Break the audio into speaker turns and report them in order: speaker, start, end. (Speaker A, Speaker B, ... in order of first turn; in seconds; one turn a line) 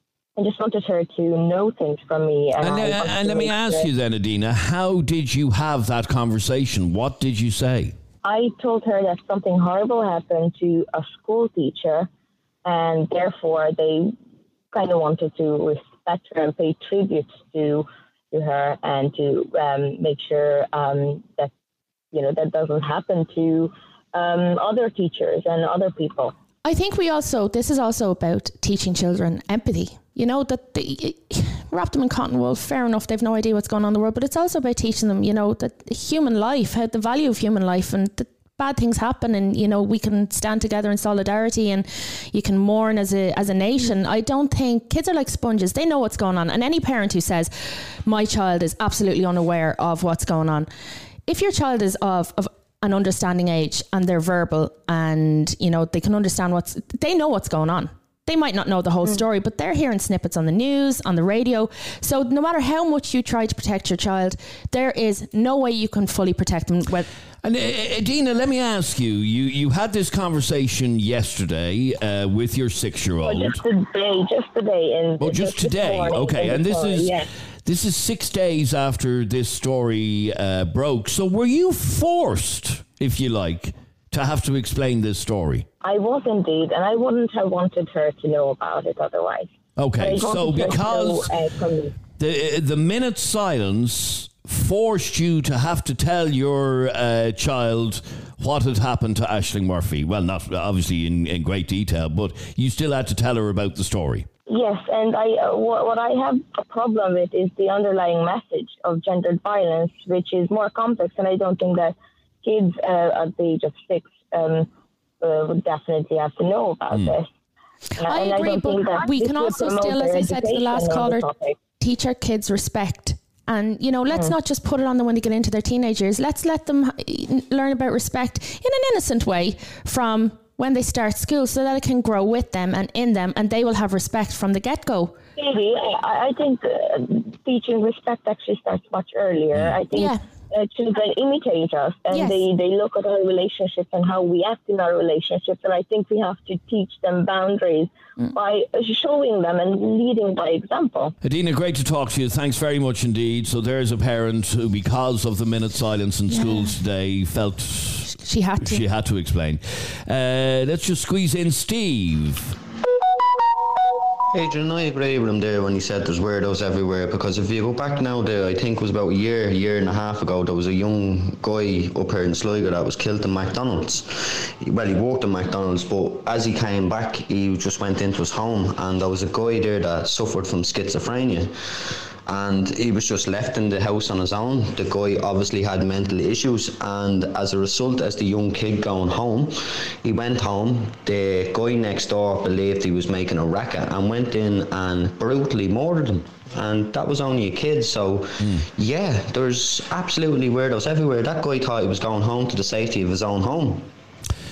Speaker A: 0.4-3.9
Speaker B: 2.6-7.9
Speaker A: 8.2-12.1
Speaker A: 12.6-14.2
Speaker A: 14.7-21.5
Speaker A: 22.1-26.3
Speaker C: 26.6-50.7
Speaker C: 51.2-67.1
Speaker B: 67.4-73.6
Speaker A: 73.2-77.3
Speaker B: 75.2-85.7
Speaker A: 85.8-92.0
Speaker B: 89.8-91.3
Speaker B: 92.2-104.3
Speaker A: 104.5-114.7
Speaker A: 115.2-117.3
Speaker B: 116.9-117.2
Speaker A: 118.0-121.5
Speaker C: 118.0-121.3
Speaker C: 121.8-135.2
Speaker A: 135.4-151.1
Speaker C: 139.9-140.2
Speaker C: 142.1-142.4
Speaker B: 151.2-162.5
Speaker C: 156.3-156.7
Speaker C: 158.2-158.8
Speaker D: 164.3-181.5
Speaker D: 182.3-203.9